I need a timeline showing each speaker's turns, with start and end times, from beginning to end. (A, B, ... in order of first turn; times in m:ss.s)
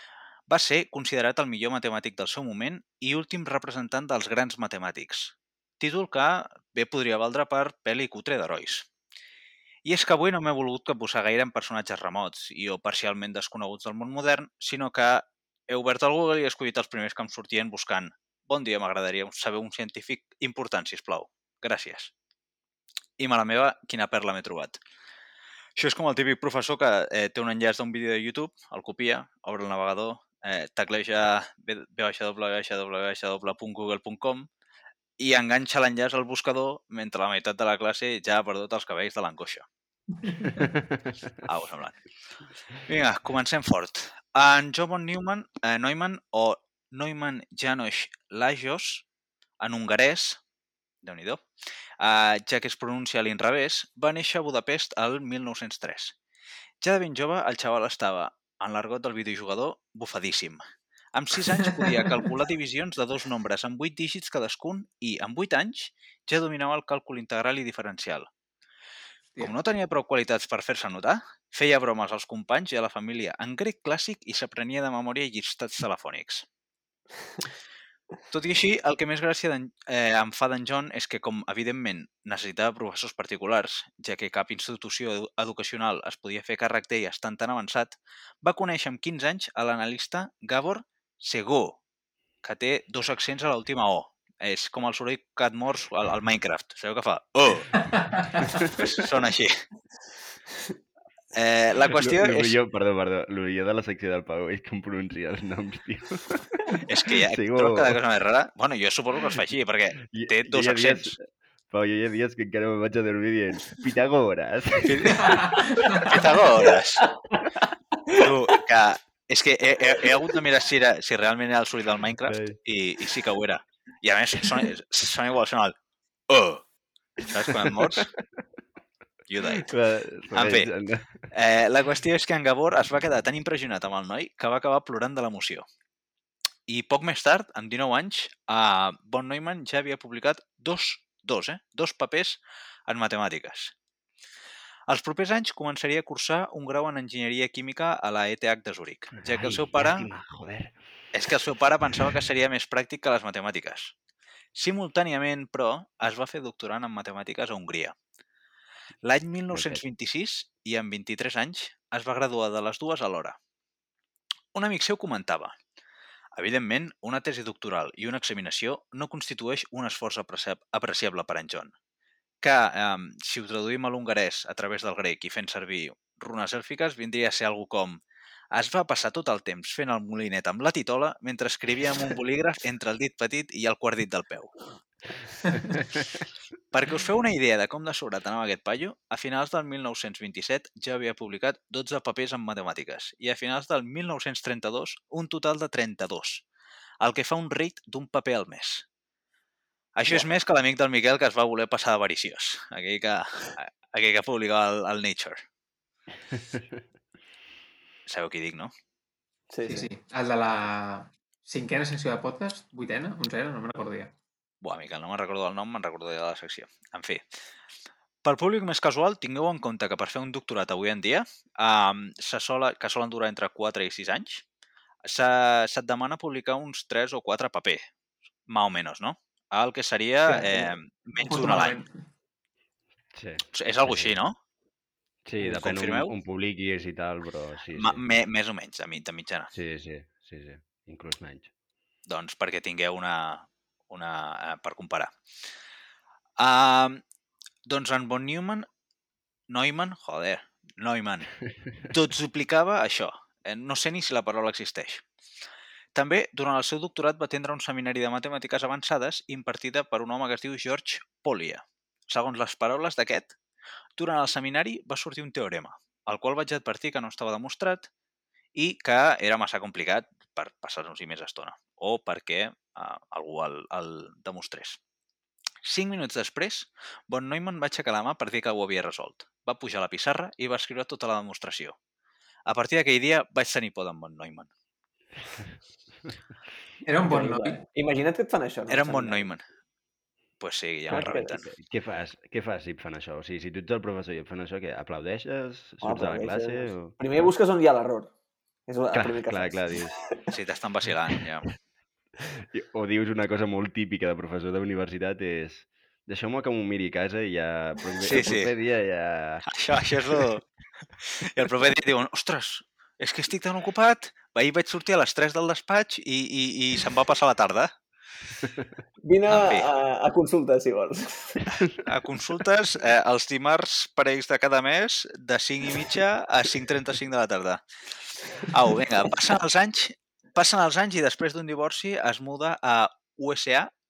0:00.5-0:08.9 A
0:09.8-0:22.1 A
0:23.2-0:24.8 A
0:25.8-0:34.5 A
0:35.2-0:39.6 A
0:40.6-0:41.0 B
0:41.4-0:42.0 A
0:42.8-0:49.0 A
0:49.6-0:50.4 A
0:51.0-0:51.4 A
0:52.0-0:56.1 A
0:56.8-1:00.6 A
1:01.1-1:08.3 A
1:09.4-1:16.4 A
1:18.3-1:31.8 A
1:32.4-1:39.5 A
1:38.4-1:38.9 B
1:41.3-1:42.6 A
1:41.9-1:48.0 B
1:46.8-1:51.2 A
1:50.1-1:51.2 B
1:51.7-1:55.6 B
1:54.8-1:57.0 A
1:55.3-1:56.0 C
1:56.1-1:57.4 D
1:58.1-2:05.7 A
2:02.2-2:02.6 B
2:06.3-2:06.6 A
2:07.2-2:08.1 A
2:07.6-2:08.1 B
2:09.3-2:09.7 A
2:09.6-2:11.2 B
2:10.3-2:10.7 A
2:11.3-2:15.6 A
2:16.7-2:23.7 A
2:24.9-2:30.1 A
2:29.2-2:30.8 B
2:31.1-2:33.9 A
2:34.5-2:38.0 A
2:39.0-2:43.4 A
2:39.5-2:39.8 B
2:44.5-2:45.6 A
2:46.3-2:51.7 A
2:52.4-2:58.0 A
2:58.5-3:04.6 A
3:05.8-3:06.2 B
3:06.7-3:16.4 A
3:17.0-3:18.8 A
3:20.0-3:25.4 A
3:26.3-3:26.8 B
3:28.1-3:28.7 A
3:29.5-3:29.9 D
3:29.6-3:34.1 C
3:34.6-3:37.2 A
3:38.2-3:44.4 A
3:45.0-3:47.9 A
3:48.5-3:51.8 A
3:51.2-3:52.0 C
3:53.1-3:54.2 B
3:53.5-3:54.4 A
3:55.2-3:58.0 B
3:55.4-3:56.1 A
3:57.7-3:59.5 A
3:59.5-4:01.5 B
4:02.1-4:05.1 A
4:06.4-4:07.0 A
4:07.6-4:08.6 A
4:09.5-4:15.0 A
4:15.9-4:23.4 A
4:24.0-4:27.9 A
4:28.5-4:34.8 A
4:35.6-4:41.8 A
4:42.5-4:44.5 A
4:46.8-4:47.6 C
4:47.1-4:49.3 D
4:48.7-4:49.4 A
4:50.4-4:51.5 A
4:50.9-4:51.4 D
4:50.9-4:57.0 B
4:55.8-4:58.1 D
4:58.7-4:59.6 D
4:58.9-5:00.0 B
5:00.3-5:01.5 A
5:02.4-5:10.3 B
5:08.0-5:08.5 A
5:09.5-5:10.4 A
5:11.2-5:17.7 A
5:19.0-5:21.4 D
5:19.3-5:19.7 A
5:21.7-5:27.6 A
5:28.4-5:33.7 A